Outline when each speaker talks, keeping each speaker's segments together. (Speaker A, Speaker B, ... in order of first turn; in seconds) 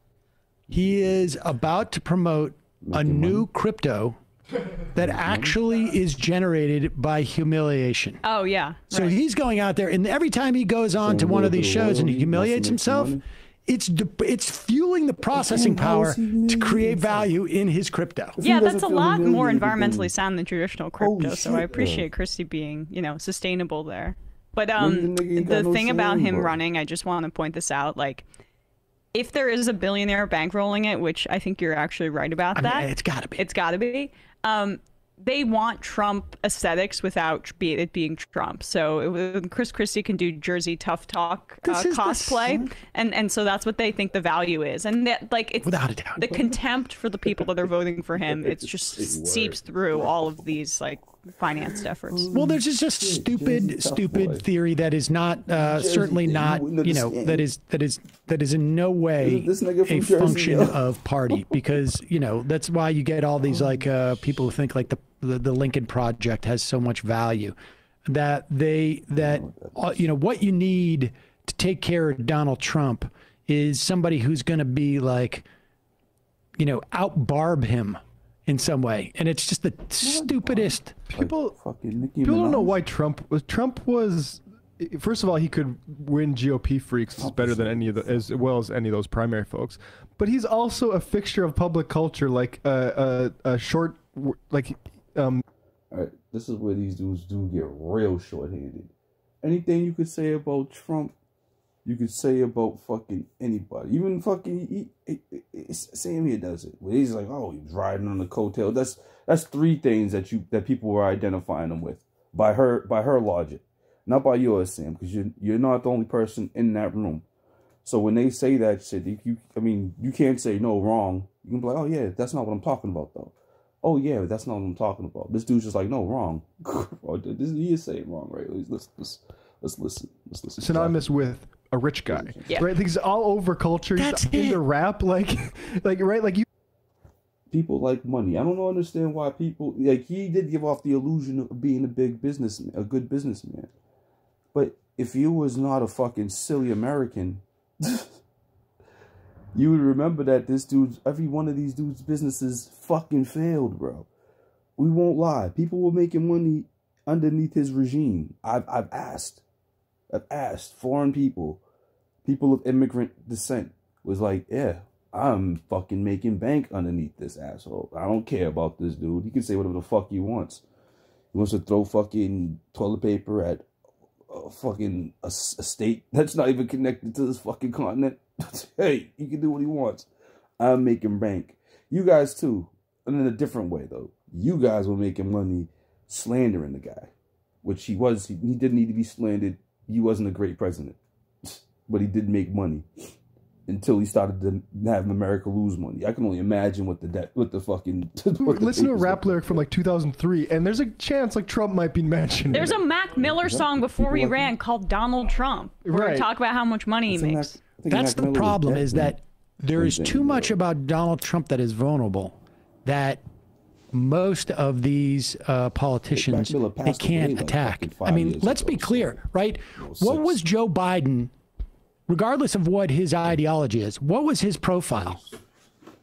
Speaker A: 0.7-4.2, 4.9-8.2, 8.9-18.4, 32.5-33.4, 41.6-42.6, 45.6-46.2, 52.3-67.5, 68.1-75.5, 76.6-81.0, 133.9-134.6, 207.9-213.2, 213.9-221.3, 222.1-225.2
Speaker B: 2.8-3.5, 5.0-5.6, 11.0-13.2, 15.3-17.3, 18.4-20.1, 21.0-22.1, 24.8-26.6, 48.2-50.3, 52.1-54.5, 55.5-57.5, 59.2-60.8, 63.5-63.8, 69.2-70.1, 80.0-82.8, 87.2-88.5, 95.9-101.1, 101.8-117.2, 117.8-131.3, 132.1-132.7, 137.5-143.7, 144.5-148.2, 149.5-154.1, 154.8-159.4, 160.1-161.6, 162.2-170.6, 171.3-173.7, 174.3-187.1, 187.6-192.8, 193.7-199.7, 203.2-204.5, 207.1-209.2, 209.8-210.6, 216.1-219.2, 219.7-220.4, 224.9-225.4
Speaker C: 8.2-9.1, 18.4-28.2, 29.1-52.3, 202.5-207.6
Speaker D: 81.1-81.5, 82.2-95.4, 130.6-136.4, 198.4-202.8, 205.8-206.3